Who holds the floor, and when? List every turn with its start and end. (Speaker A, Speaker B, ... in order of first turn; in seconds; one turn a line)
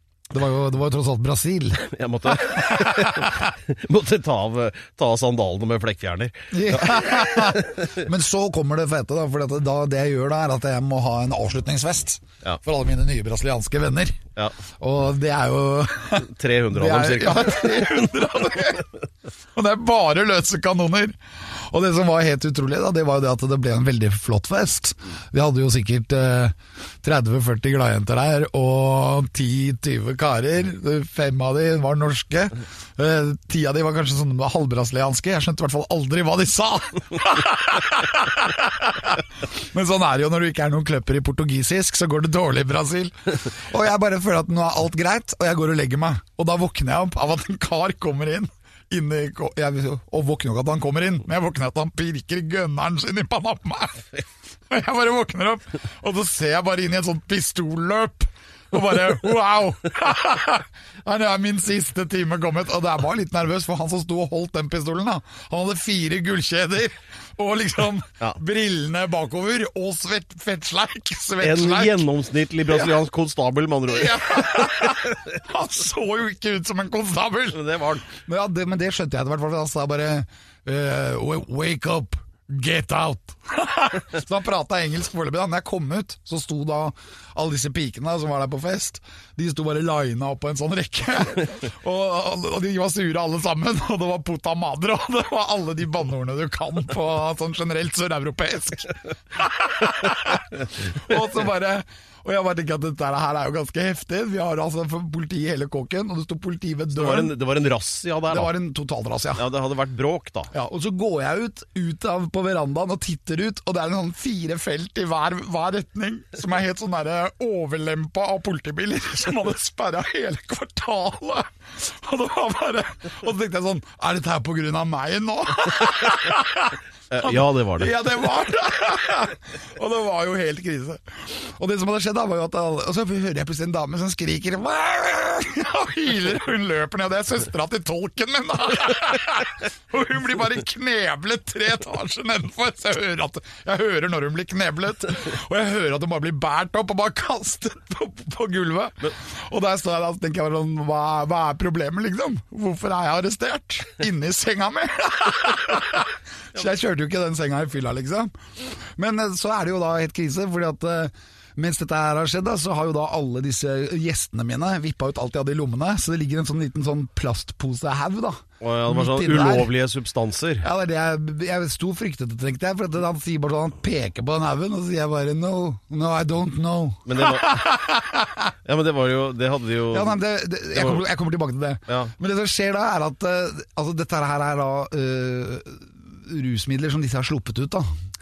Speaker A: 0.3-3.4
Speaker B: 1.9-7.9
Speaker A: 6.5-14.2
Speaker A: 14.8-18.9
Speaker B: 16.2-18.5
Speaker A: 19.5-72.0
Speaker B: 71.4-75.1
Speaker A: 73.9-107.3
Speaker B: 77.5-78.0
Speaker B: 106.9-108.5
Speaker A: 108.3-109.4
Speaker B: 109.3-110.5
Speaker A: 110.5-169.7
Speaker B: 127.1-127.9
Speaker B: 168.6-170.7
Speaker A: 170.6-178.5
Speaker B: 177.1-177.7
Speaker B: 178.6-180.2
Speaker A: 179.9-187.9
Speaker B: 180.7-181.0